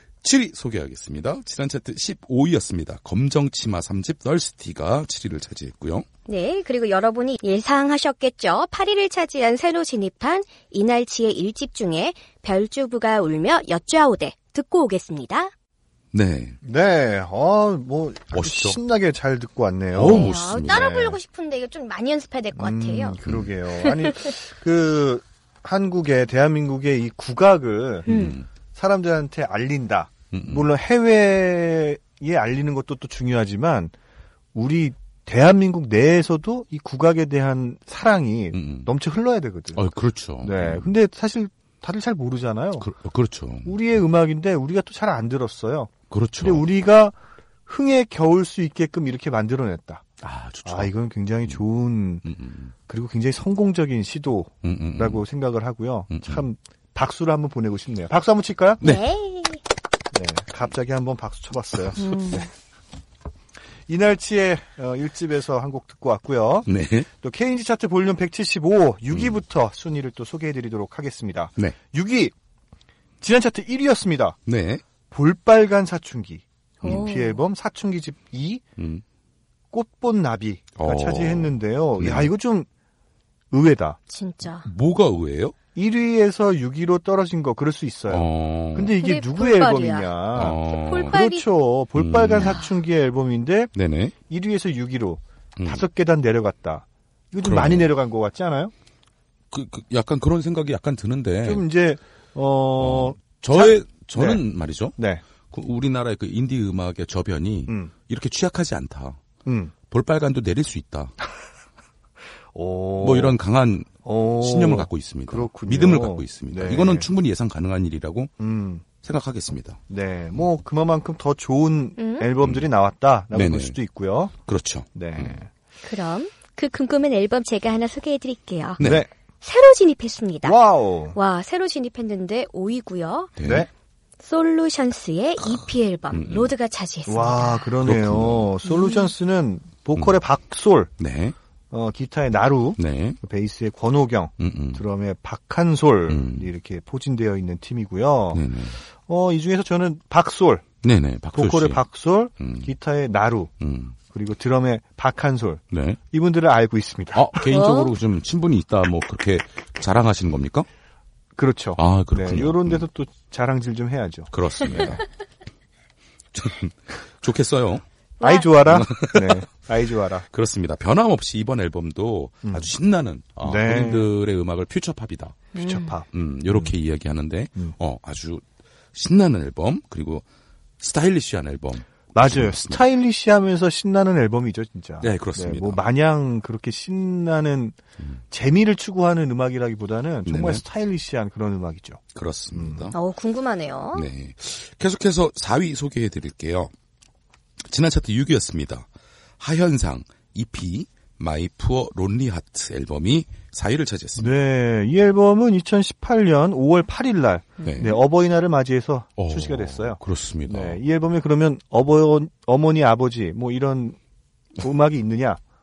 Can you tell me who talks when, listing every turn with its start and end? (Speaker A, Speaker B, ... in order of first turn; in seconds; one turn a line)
Speaker A: 0.2-6.0
Speaker B: 6.3-15.5
Speaker A: 16.1-16.6
Speaker C: 16.6-21.2
Speaker A: 18.3-18.8
Speaker A: 19.9-20.9
Speaker B: 20.0-23.2
Speaker C: 22.6-28.1
Speaker A: 23.2-23.5
Speaker A: 28.1-28.5
Speaker B: 28.1-28.4
Speaker C: 28.7-33.9
Speaker A: 30.3-30.7
Speaker C: 34.5-39.9
Speaker A: 38.5-38.9
Speaker A: 39.7-40.9
Speaker C: 40.4-42.9
Speaker A: 42.8-43.8
Speaker C: 43.6-47.1
Speaker A: 46.1-46.6
Speaker C: 47.6-50.0
Speaker A: 50.2-50.9
Speaker C: 50.6-52.3
Speaker A: 52.2-52.7
Speaker C: 52.9-58.8
Speaker A: 54.6-55.2
Speaker A: 56.1-56.4
Speaker A: 58.8-59.0
Speaker B: 58.8-59.6
Speaker C: 60.1-62.5
Speaker B: 62.0-62.5
Speaker C: 63.9-72.3
Speaker A: 66.7-67.1
Speaker A: 69.1-69.4
Speaker C: 73.2-74.4
Speaker A: 74.5-74.8
Speaker C: 75.1-78.6
Speaker B: 76.8-77.4
Speaker A: 78.8-79.0
Speaker C: 79.7-82.7
Speaker A: 80.8-82.3
Speaker C: 83.5-84.0
Speaker B: 84.1-84.7
Speaker A: 84.6-85.5
Speaker C: 85.7-93.7
Speaker A: 88.1-89.0
Speaker B: 89.0-90.1
Speaker A: 90.3-91.2
Speaker B: 90.6-91.5
Speaker A: 92.0-92.7
Speaker B: 92.4-92.7
Speaker A: 93.7-94.1
Speaker C: 94.3-98.7
Speaker A: 95.6-95.8
Speaker A: 97.4-97.9
Speaker A: 99.5-101.6
Speaker C: 101.4-104.4
Speaker A: 102.8-105.0
Speaker C: 105.0-105.2
Speaker A: 105.5-109.2
Speaker C: 109.4-109.7
Speaker A: 109.9-111.1
Speaker C: 112.5-113.4
Speaker A: 113.0-118.3
Speaker C: 114.0-117.1
Speaker C: 118.4-118.8
Speaker A: 119.0-119.8
Speaker C: 119.9-124.3
Speaker B: 122.0-122.3
Speaker A: 122.4-122.7
Speaker A: 123.3-123.8
Speaker A: 124.5-125.4
Speaker C: 124.9-125.5
Speaker B: 125.8-128.8
Speaker A: 128.8-129.1
Speaker C: 128.8-129.1
Speaker B: 129.4-130.6
Speaker C: 130.4-131.2
Speaker B: 131.1-133.3
Speaker A: 133.4-133.7
Speaker C: 133.4-133.7
Speaker B: 134.2-137.7
Speaker A: 136.1-136.5
Speaker C: 137.1-140.9
Speaker A: 137.8-138.5
Speaker B: 138.7-139.1
Speaker A: 139.9-140.2
Speaker A: 141.0-141.4
Speaker C: 141.7-148.4
Speaker A: 142.8-143.2
Speaker A: 144.4-144.8
Speaker A: 146.1-146.5
Speaker A: 148.3-148.8
Speaker C: 149.0-150.7
Speaker A: 150.8-151.8
Speaker C: 151.3-153.5
Speaker A: 152.4-152.7
Speaker A: 153.6-153.9
Speaker C: 154.1-157.3
Speaker A: 155.7-156.0
Speaker A: 157.1-160.7
Speaker B: 157.5-157.9
Speaker C: 161.4-165.0
Speaker A: 161.8-162.9
Speaker A: 164.3-165.0
Speaker A: 166.3-167.8
Speaker B: 168.2-168.5
Speaker C: 168.2-170.2
Speaker A: 168.6-169.5
Speaker A: 170.3-175.5
Speaker C: 172.4-172.7
Speaker C: 173.4-174.1
Speaker B: 175.5-176.0
Speaker C: 175.6-176.7
Speaker A: 176.1-180.2
Speaker A: 180.8-182.8
Speaker C: 182.1-187.8
Speaker A: 185.0-185.8
Speaker C: 188.3-192.0
Speaker A: 190.2-190.6
Speaker A: 192.1-192.9
Speaker C: 192.5-192.9
Speaker B: 192.9-194.1
Speaker A: 193.9-196.7
Speaker A: 197.6-198.9
Speaker A: 199.4-204.4
Speaker C: 204.2-214.0
Speaker A: 207.6-208.0
Speaker A: 209.2-210.8
Speaker C: 214.6-215.4